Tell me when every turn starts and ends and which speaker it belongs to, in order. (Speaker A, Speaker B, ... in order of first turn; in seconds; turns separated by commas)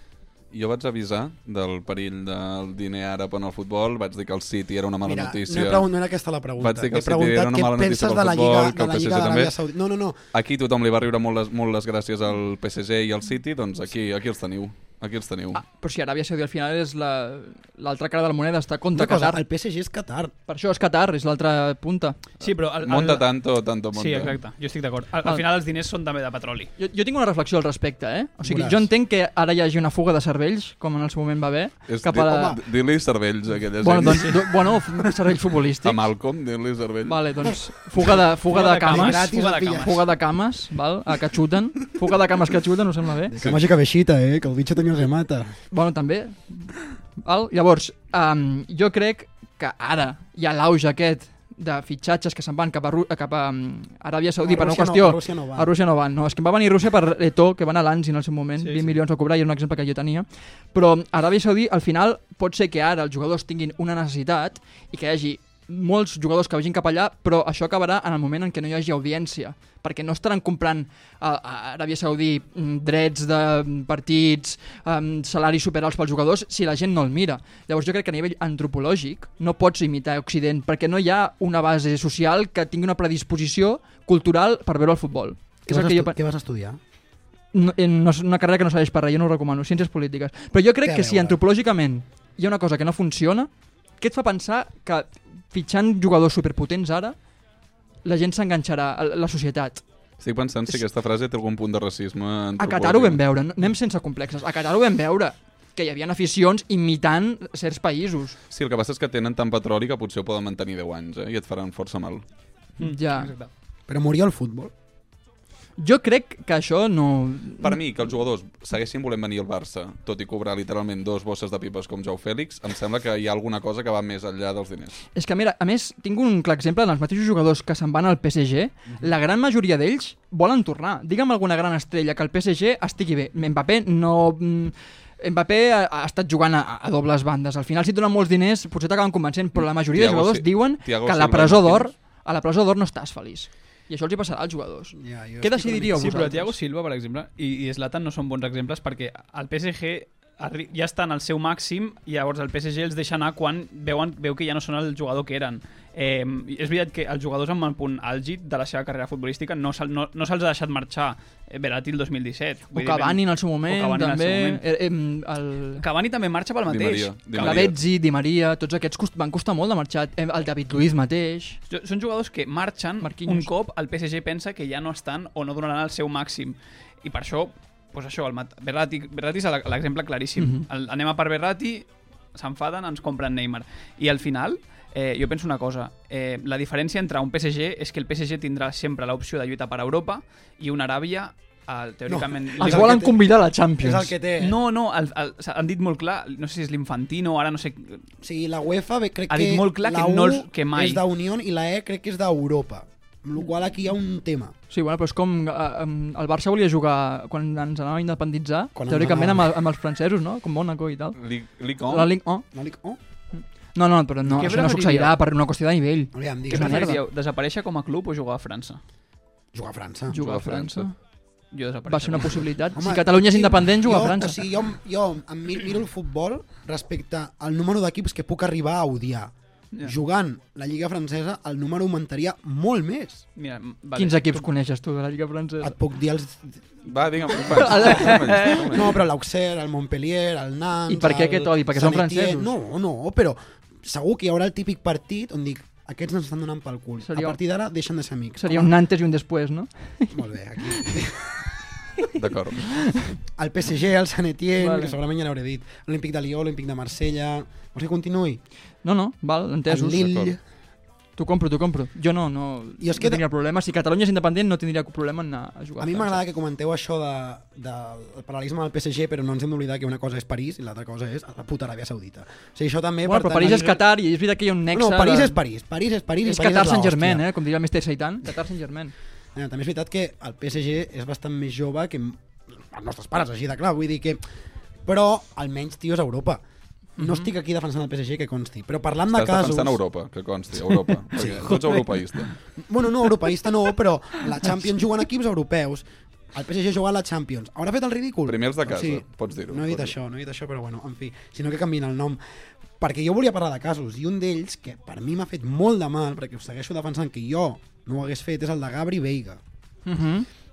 Speaker A: 0.5-5.9, Speaker B: 5.0-10.2, Speaker A: 6.6-9.5, Speaker A: 10.3-15.6, Speaker C: 15.5-19.4, Speaker B: 18.9-20.3, Speaker C: 20.5-22.2, Speaker D: 22.4-26.7, Speaker A: 22.8-24.4, Speaker C: 26.8-32.6, Speaker B: 28.4-28.9, Speaker A: 31.9-34.5, Speaker C: 33.8-36.0, Speaker A: 35.8-37.2, Speaker C: 37.1-43.4, Speaker D: 38.5-40.0, Speaker B: 38.8-40.0, Speaker B: 43.3-45.6, Speaker C: 45.7-86.2, Speaker B: 54.4-55.7, Speaker D: 58.6-58.9, Speaker B: 85.7-86.8, Speaker C: 87.5-97.2, Speaker B: 90.8-91.4, Speaker C: 98.0-99.8, Speaker A: 100.2-103.2, Speaker C: 102.6-108.4, Speaker A: 108.5-112.2, Speaker D: 112.8-113.5, Speaker C: 112.8-113.3, Speaker B: 113.9-114.7, Speaker C: 115.8-117.8, Speaker A: 117.6-125.0, Speaker C: 125.1-146.5, Speaker A: 139.9-141.9, Speaker B: 144.9-146.3, Speaker D: 146.0-164.6, Speaker C: 162.7-165.8, Speaker D: 165.8-167.7, Speaker A: 166.7-167.8, Speaker C: 167.4-171.6, Speaker D: 171.7-193.0, Speaker C: 173.0-173.5, Speaker C: 180.4-180.7, Speaker B: 192.1-193.2, Speaker C: 192.6-194.1, Speaker B: 193.8-194.6, Speaker D: 194.4-198.0, Speaker B: 198.2-204.5, Speaker D: 199.3-201.0, Speaker C: 204.7-211.2, Speaker B: 208.8-209.5, Speaker A: 211.2-212.1, Speaker C: 211.9-212.5, Speaker B: 212.5-213.0, Speaker C: 213.3-217.0, Speaker D: 214.3-215.2, Speaker B: 216.1-216.9, Speaker D: 216.5-218.8, Speaker B: 219.5-220.2, Speaker C: 220.1-220.9, Speaker A: 220.2-220.9, Speaker D: 221.5-222.5, Speaker C: 221.9-224.4, Speaker B: 222.7-233.2, Speaker D: 233.4-234.5, Speaker C: 234.0-235.8, Speaker B: 235.6-236.6, Speaker A: 236.9-238.9, Speaker C: 237.5-238.6, Speaker D: 237.9-238.7, Speaker B: 238.7-248.7, Speaker C: 240.9-242.5, Speaker C: 247.0-247.4, Speaker C: 248.4-250.9, Speaker B: 250.1-251.4, Speaker A: 252.1-252.7, Speaker C: 252.7-253.2, Speaker B: 253.4-258.4, Speaker C: 254.6-255.0, Speaker C: 258.8-260.1, Speaker B: 259.7-260.4, Speaker A: 259.9-260.4, Speaker C: 261.2-266.2, Speaker B: 262.8-263.2, Speaker B: 265.8-273.8, Speaker C: 273.0-275.4, Speaker B: 274.7-277.3, Speaker C: 276.2-278.9, Speaker B: 279.4-284.2, Speaker B: 284.9-286.4, Speaker B: 287.0-289.8, Speaker A: 289.1-292.3, Speaker B: 291.1-291.9, Speaker B: 292.6-302.2, Speaker A: 298.3-299.9, Speaker B: 302.8-309.4, Speaker C: 309.9-310.3